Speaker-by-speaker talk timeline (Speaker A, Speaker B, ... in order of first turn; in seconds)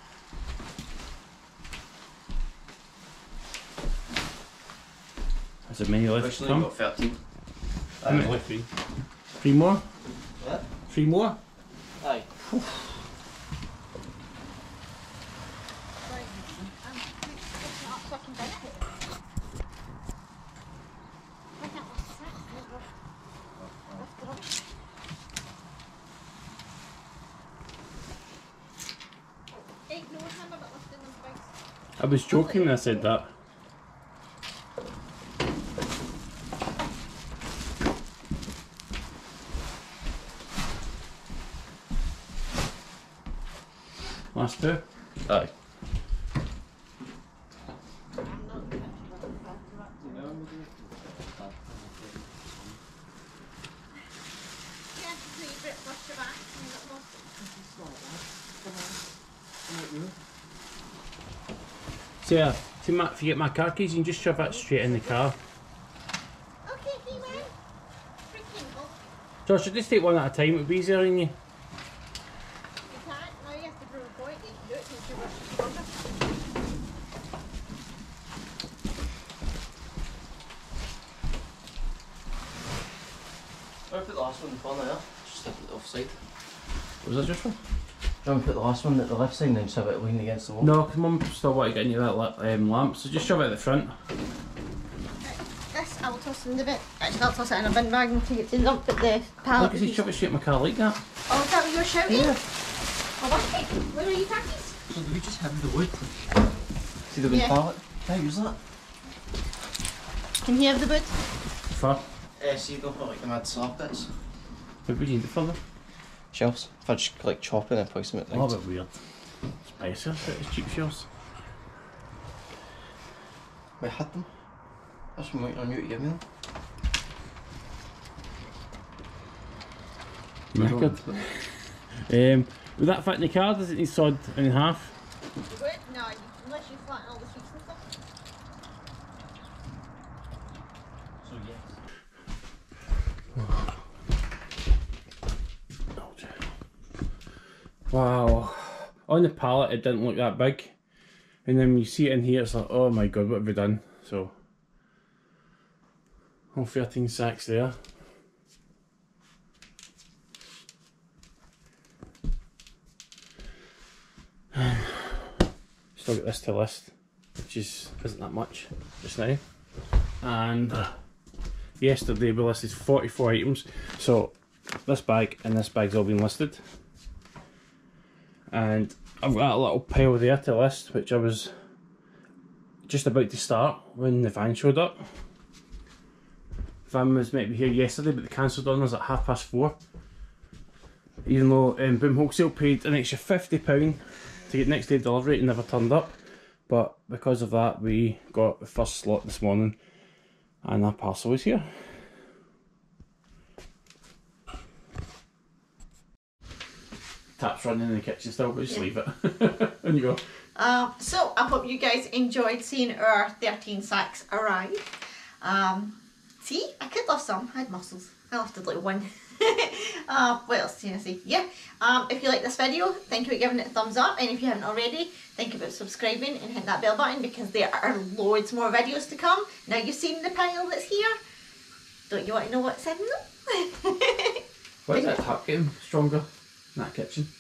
Speaker A: 5.7-6.7, 8.0-8.7, 9.4-9.8, 10.9-11.4, 12.5-12.8, 32.0-33.3, 44.3-44.8, 62.2-65.4, 69.5-71.3, 87.0-87.6, 90.6-93.9, 99.6-101.0, 111.7-112.0, 114.9-115.6, 118.3-119.0, 119.7-121.1, 130.5-134.9, 145.9-146.3, 147.9-150.7, 151.5-154.3, 156.5-157.8, 164.6-164.9, 165.9-166.9, 167.5-169.4, 170.2-170.9, 171.8-174.3, 174.9-176.6, 178.5-181.5, 182.9-185.0, 186.9-189.8, 191.2-196.2, 196.7-199.8, 200.6-201.7, 207.4-210.2, 234.9-237.3
Speaker B: 6.2-7.2, 8.0-8.4, 10.4-10.7, 12.0-12.3, 23.6-24.0, 45.3-45.5, 50.0-52.8, 57.4-59.0, 59.7-60.1, 67.1-67.4, 83.9-86.2, 88.2-90.7, 102.1-102.4, 104.9-106.0, 107.1-108.6, 112.4-114.1, 116.3-118.5, 123.8-124.3, 125.2-126.2, 130.6-131.3, 141.2-141.8
Speaker C: 16.1-18.9, 21.6-22.9, 24.0-24.5, 29.5-31.5, 32.3-33.1, 48.2-50.3, 54.9-57.3, 66.7-67.5, 68.3-69.1, 72.9-75.9, 95.2-100.1, 101.3-102.4, 103.2-104.8, 107.3-107.6, 110.4-111.2, 135.5-137.8, 210.6-214.8, 215.4-231.2, 232.1-235.2